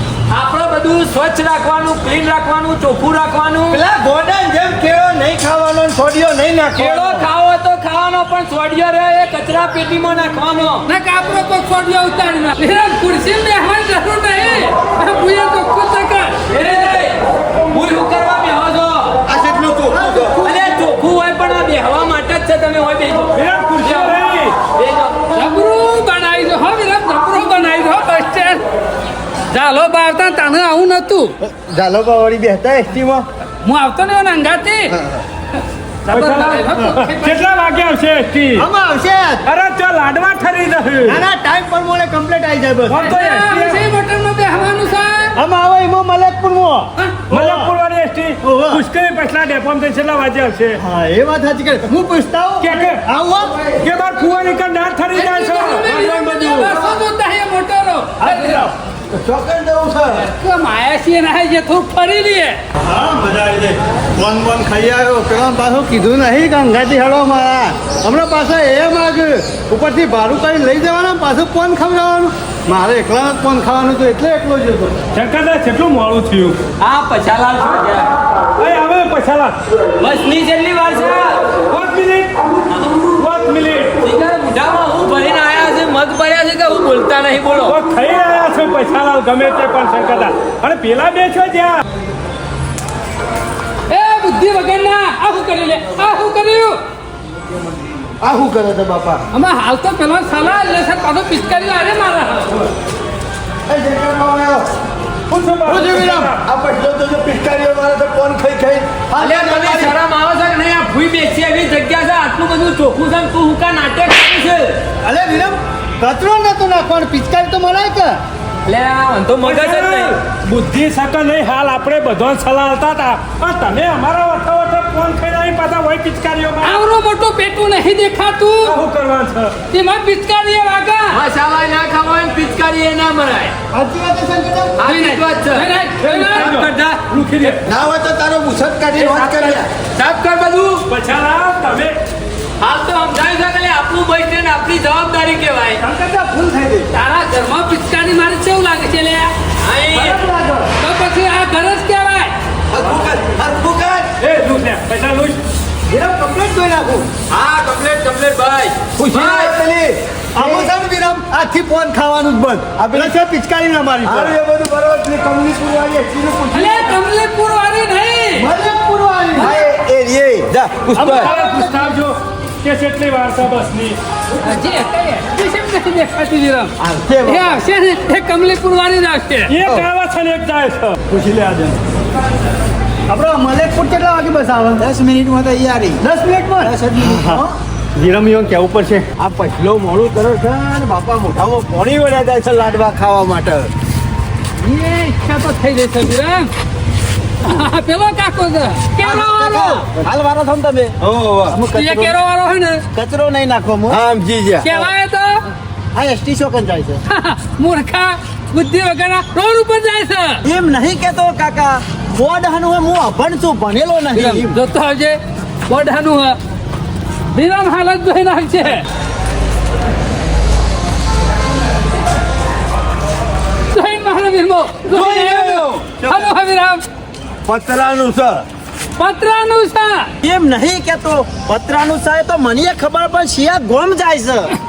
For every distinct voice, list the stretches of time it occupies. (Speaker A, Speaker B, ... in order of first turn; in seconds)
Speaker A: 0.3-3.8, 6.8-10.9, 16.5-19.2, 20.4-24.2, 24.8-25.2, 76.8-78.1, 80.0-81.5, 84.0-87.8, 109.2-114.8, 118.7-120.2, 131.1-133.5, 134.8-137.4, 139.0-140.8, 142.6-145.8, 149.6-150.2, 157.3-159.6
Speaker B: 3.7-7.3, 19.3-20.4, 31.4-33.2, 59.1-60.3, 98.2-99.2, 103.7-104.7, 106.4-109.9, 137.7-139.7, 152.7-154.1, 159.0-160.7, 162.8-163.1, 164.1-167.0, 169.4-171.3, 176.8-177.6, 189.2-193.7, 201.0-201.6, 203.9-204.7, 224.9-226.3, 227.5-228.4
Speaker C: 10.9-16.4, 25.4-28.6, 29.5-31.4, 33.6-35.0, 35.6-37.5, 43.0-45.4, 55.1-58.7, 60.2-62.6, 93.9-96.8, 99.3-102.7, 126.6-128.8, 129.7-131.2, 134.8-136.5, 146.9-149.3, 150.8-152.3, 166.5-168.5, 171.4-171.7, 174.4-176.7, 177.2-179.5, 194.6-196.5, 197.4-199.9, 201.7-202.8, 204.6-205.4, 207.1-210.4, 214.1-216.4, 217.3-218.8, 223.7-226.8, 229.0-230.1
Speaker D: 19.9-20.8, 36.7-37.0, 38.6-39.5, 41.1-43.0, 45.4-47.7, 48.4-48.8, 50.8-53.7, 58.2-58.7, 62.8-75.0, 105.7-106.3, 115.0-118.2, 133.7-134.8, 145.8-146.9, 149.9-150.7, 155.9-157.1, 160.3-164.3, 168.4-169.6, 171.0-171.9, 181.1-181.8, 183.1-184.9, 186.0-187.4, 188.0-189.1
Speaker E: 23.3-24.6, 36.1-38.7, 39.5-41.2, 42.9-43.8, 47.3-50.8, 52.6-53.0, 53.8-56.8, 75.1-76.6, 78.6-79.6, 81.7-84.0, 87.7-91.8, 105.3-106.4, 119.4-126.8, 128.6-129.6, 136.0-137.6, 140.9-142.0, 154.2-155.4, 171.0-174.0, 179.5-181.0
Speaker F: 184.8-186.0, 186.6-187.5, 199.0-200.9, 201.5-202.1, 202.9-204.0, 205.9-207.0, 210.5-214.6, 230.2-234.5